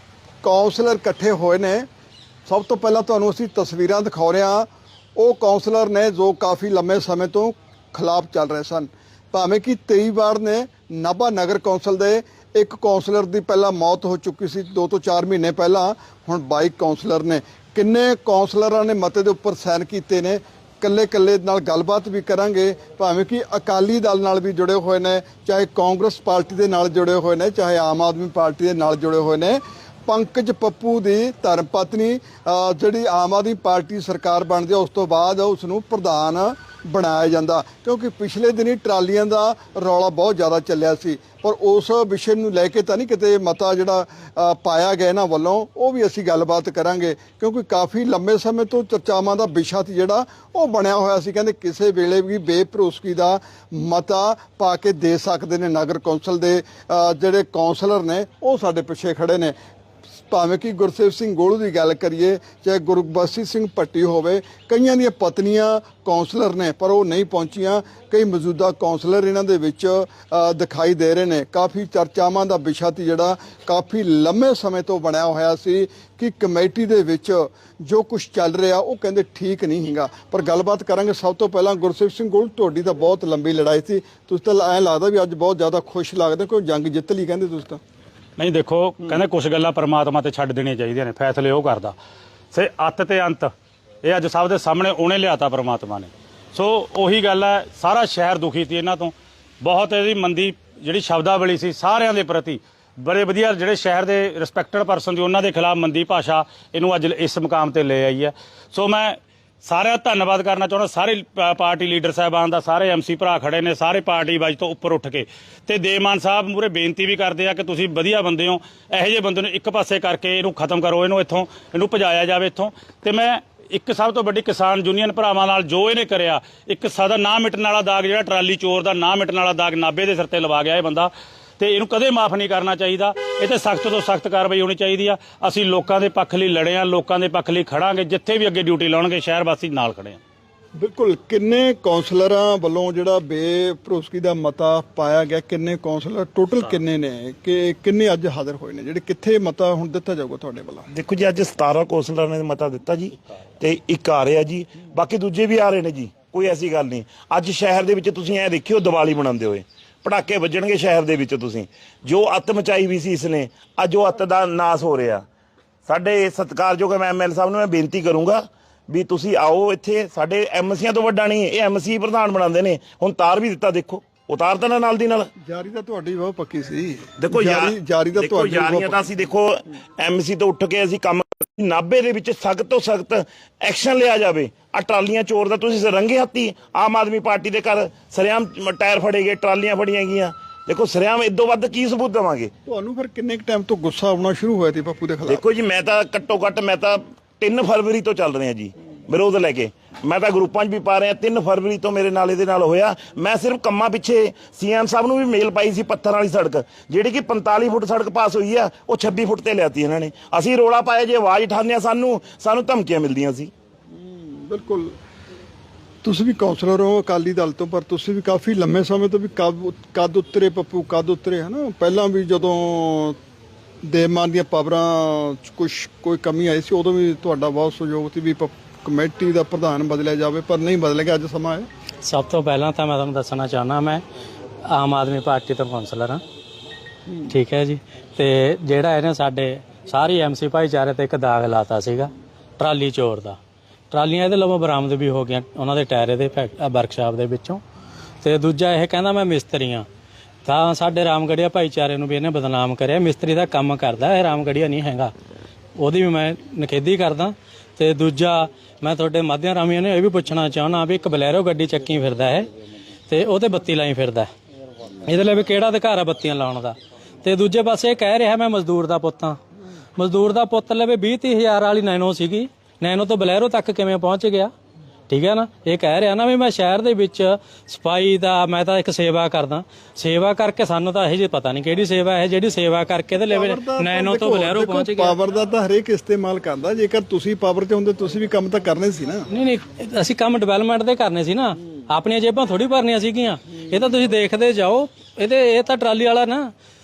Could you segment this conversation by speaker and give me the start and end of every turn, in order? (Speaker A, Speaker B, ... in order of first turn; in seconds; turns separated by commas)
Speaker A: 0.4-1.9, Speaker A: 2.5-59.5, Speaker A: 60.3-87.8, Speaker B: 88.4-91.9, Speaker B: 92.5-140.2, Speaker A: 140.8-150.9, Speaker C: 150.9-165.2, Speaker C: 165.8-175.3, Speaker A: 175.4-179.0, Speaker C: 177.2-192.5, Speaker A: 192.7-195.4, Speaker C: 195.3-213.5, Speaker A: 213.9-214.9, Speaker A: 216.0-223.2, Speaker A: 223.9-231.7, Speaker D: 232.1-234.0, Speaker D: 234.7-236.2, Speaker A: 237.1-237.3, Speaker D: 237.3-243.4, Speaker D: 243.9-247.6, Speaker D: 248.2-249.9, Speaker D: 250.4-255.1, Speaker D: 255.8-262.5, Speaker D: 263.1-264.3, Speaker D: 265.1-269.4, Speaker D: 270.0-274.5, Speaker D: 275.1-285.2, Speaker A: 283.1-289.2, Speaker D: 289.3-296.5